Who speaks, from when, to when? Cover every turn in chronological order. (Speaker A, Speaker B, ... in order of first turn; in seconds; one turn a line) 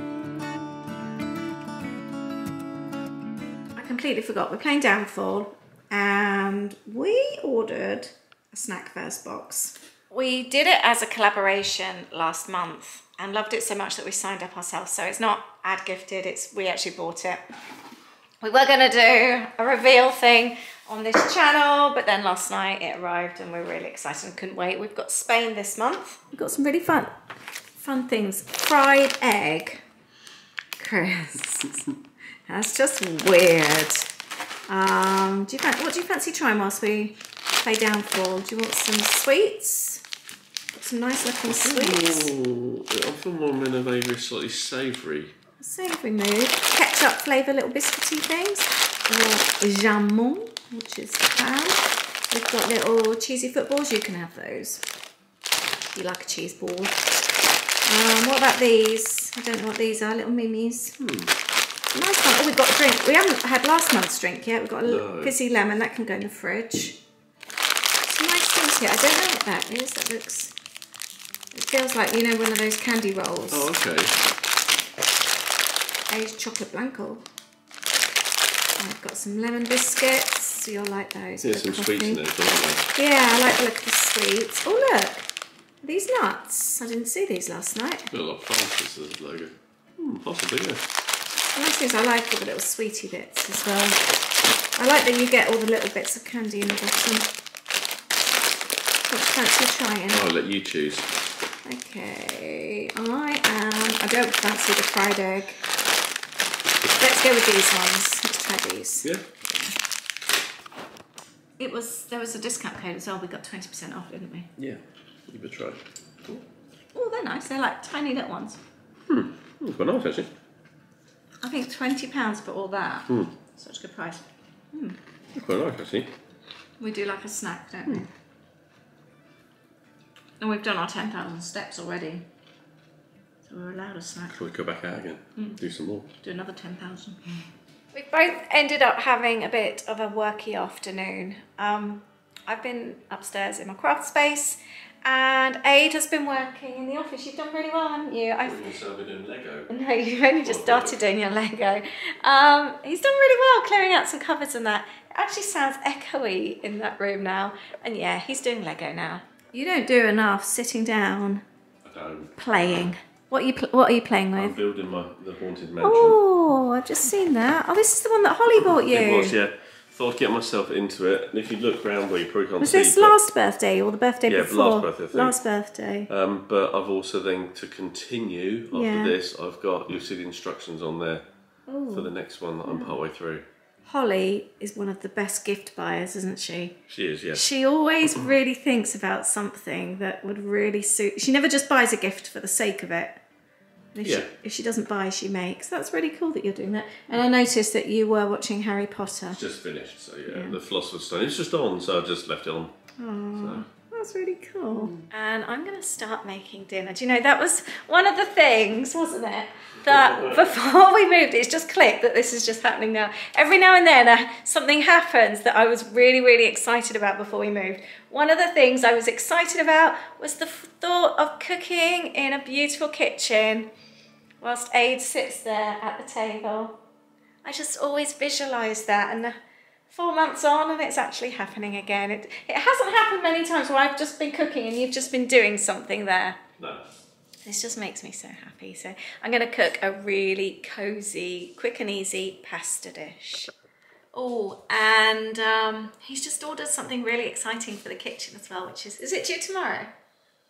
Speaker A: 3.8-17.4
Speaker A: 18.4-27.1
Speaker A: 27.8-29.8
Speaker A: 30.8-31.9
Speaker A: 32.5-34.1
Speaker A: 34.7-40.0
Speaker A: 40.7-42.3
Speaker B: 41.5-45.3
Speaker A: 45.6-54.9
Speaker A: 55.9-57.0
Speaker A: 57.9-61.0
Speaker B: 61.0-61.3
Speaker A: 61.9-67.0
Speaker B: 64.8-65.3
Speaker A: 68.0-70.5
Speaker A: 71.5-73.7
Speaker B: 73.5-74.1
Speaker A: 76.1-77.2
Speaker A: 78.8-82.2
Speaker B: 81.4-82.9
Speaker A: 83.0-85.3
Speaker A: 85.8-88.1
Speaker B: 88.1-90.8
Speaker A: 91.5-94.0
Speaker A: 94.8-97.3
Speaker A: 99.1-100.2
Speaker B: 100.1-101.1
Speaker A: 101.7-105.6
Speaker A: 107.0-109.8
Speaker A: 111.6-114.5
Speaker B: 114.6-116.4
Speaker A: 116.9-118.6
Speaker B: 119.1-120.3
Speaker A: 121.4-125.0
Speaker B: 123.1-123.3
Speaker B: 125.3-126.1
Speaker A: 126.8-128.1
Speaker A: 130.4-132.3
Speaker A: 133.5-134.4
Speaker B: 134.3-136.1
Speaker A: 136.2-137.2
Speaker A: 137.9-148.6
Speaker B: 148.4-149.7
Speaker A: 149.7-161.4
Speaker B: 150.4-151.0
Speaker B: 161.8-162.9
Speaker A: 162.4-164.6
Speaker B: 164.4-166.2
Speaker A: 165.8-169.4
Speaker B: 168.6-173.2
Speaker A: 172.6-176.1
Speaker B: 174.3-175.4
Speaker B: 176.1-181.2
Speaker A: 178.7-179.1
Speaker A: 181.7-182.1
Speaker B: 181.9-183.4
Speaker A: 182.6-182.9
Speaker A: 183.8-186.8
Speaker B: 186.9-187.4
Speaker A: 187.3-193.2
Speaker A: 193.9-199.4
Speaker B: 194.0-194.3
Speaker B: 199.3-202.7
Speaker A: 200.3-200.6
Speaker A: 203.0-223.7
Speaker B: 203.4-203.6
Speaker B: 204.8-205.1
Speaker B: 209.8-210.5
Speaker A: 224.4-226.8
Speaker A: 227.4-229.4
Speaker A: 229.9-236.4
Speaker B: 236.6-236.8
Speaker A: 237.4-243.5
Speaker A: 244.1-249.9